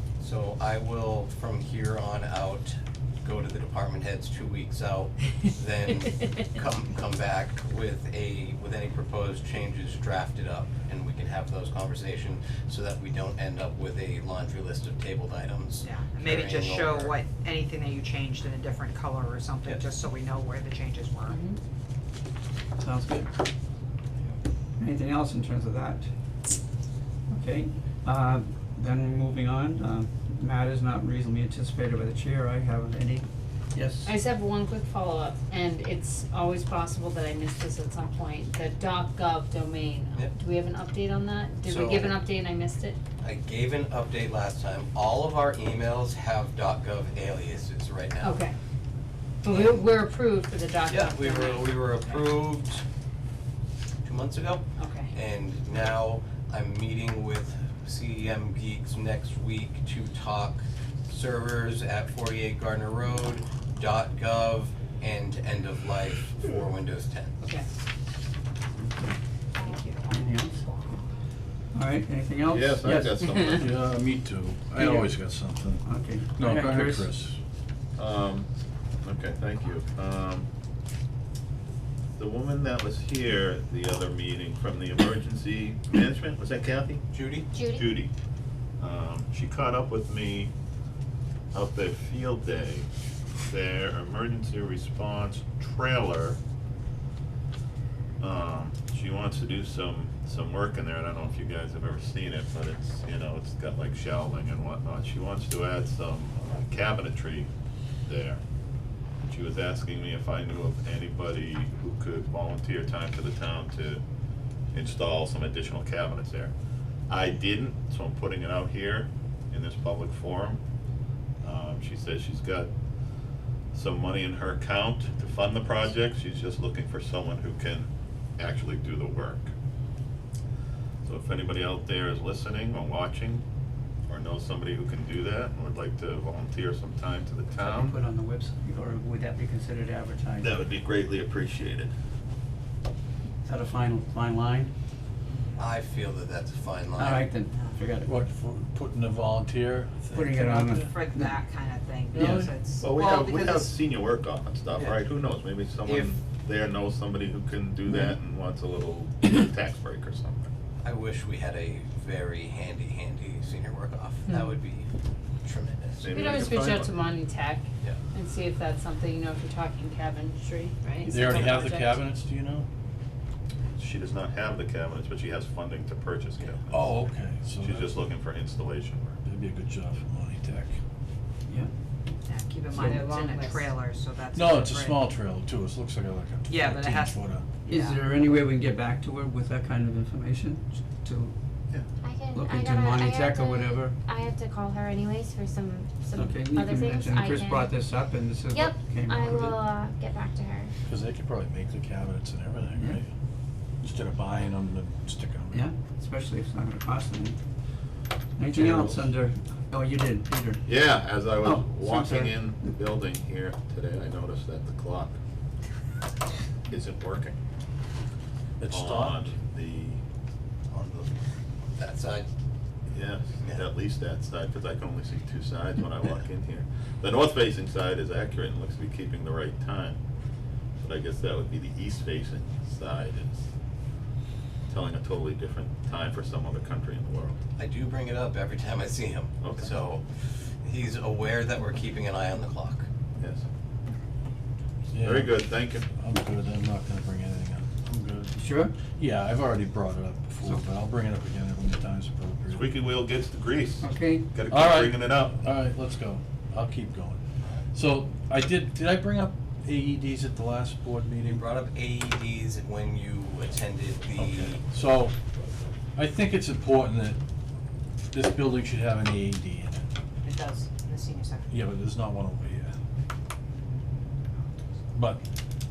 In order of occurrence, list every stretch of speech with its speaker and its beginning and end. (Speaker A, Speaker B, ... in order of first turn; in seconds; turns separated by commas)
Speaker A: 0.2-17.1, Speaker B: 15.8-21.4, Speaker C: 21.3-21.6, Speaker D: 22.8-23.3, Speaker D: 24.8-26.1, Speaker D: 27.3-34.1, Speaker C: 34.0-43.0, Speaker A: 41.6-42.2, Speaker A: 43.2-48.5, Speaker C: 48.2-48.5, Speaker C: 49.4-52.2, Speaker A: 49.5-49.9, Speaker A: 50.9-52.8, Speaker A: 54.0-67.4, Speaker C: 54.8-55.1, Speaker C: 67.4-67.7, Speaker D: 68.8-70.6, Speaker D: 71.7-73.2, Speaker E: 72.5-73.8, Speaker C: 73.2-73.5, Speaker F: 73.5-77.4, Speaker D: 74.8-75.1, Speaker D: 75.8-77.1, Speaker E: 78.0-78.5, Speaker E: 79.0-80.5, Speaker E: 82.2-87.1, Speaker A: 87.1-87.5, Speaker G: 87.5-87.9, Speaker E: 87.7-88.1, Speaker E: 88.8-90.5, Speaker E: 91.5-92.9, Speaker E: 93.5-96.4, Speaker E: 98.2-107.5, Speaker E: 108.1-108.4, Speaker E: 109.3-114.0, Speaker E: 114.7-116.5, Speaker E: 117.1-120.6, Speaker E: 121.4-122.7, Speaker E: 123.7-129.5, Speaker E: 131.0-133.4, Speaker E: 134.1-138.0, Speaker D: 137.5-140.5, Speaker E: 140.4-141.9, Speaker D: 143.4-144.7, Speaker B: 145.3-145.7, Speaker A: 145.6-147.3, Speaker D: 147.0-148.1, Speaker B: 147.5-147.8, Speaker F: 148.0-150.9, Speaker D: 150.1-151.3, Speaker B: 150.4-153.8, Speaker F: 152.1-152.5, Speaker E: 152.8-160.5, Speaker A: 154.7-155.0, Speaker A: 155.8-156.2, Speaker A: 160.8-164.9, Speaker C: 164.3-164.5, Speaker A: 165.4-166.2, Speaker E: 166.0-166.9, Speaker C: 166.1-171.9, Speaker F: 166.3-166.7, Speaker F: 171.1-172.7, Speaker E: 173.8-177.0, Speaker F: 176.7-177.9, Speaker E: 177.6-179.2, Speaker F: 179.2-180.8, Speaker B: 182.2-185.1, Speaker D: 182.8-183.0, Speaker C: 182.9-183.7, Speaker F: 184.3-187.5, Speaker B: 186.5-187.2, Speaker C: 187.6-187.9, Speaker D: 187.7-191.3, Speaker G: 192.0-197.9, Speaker D: 192.3-194.0, Speaker D: 196.1-199.8, Speaker G: 198.5-200.7, Speaker F: 200.9-203.1, Speaker D: 202.8-203.0, Speaker F: 203.8-205.7, Speaker D: 205.5-207.4, Speaker D: 208.4-210.6, Speaker F: 208.5-209.1, Speaker E: 210.6-215.1, Speaker D: 211.3-212.4, Speaker E: 216.7-217.3, Speaker F: 218.6-219.3, Speaker E: 218.7-220.0, Speaker A: 220.7-221.2, Speaker A: 221.8-222.3, Speaker E: 222.9-230.0, Speaker E: 230.8-233.4, Speaker E: 234.7-237.4, Speaker A: 237.6-240.0, Speaker E: 239.4-239.8, Speaker A: 240.6-242.9, Speaker E: 243.2-243.4, Speaker F: 244.9-252.7, Speaker E: 245.0-245.9, Speaker D: 248.3-248.7, Speaker E: 252.5-255.4, Speaker D: 253.8-254.3, Speaker F: 254.4-257.2, Speaker F: 257.7-261.4, Speaker A: 261.2-264.6, Speaker F: 264.1-265.1, Speaker F: 265.9-267.2, Speaker F: 268.1-269.9, Speaker B: 270.2-271.5, Speaker F: 271.5-272.7, Speaker F: 274.9-275.2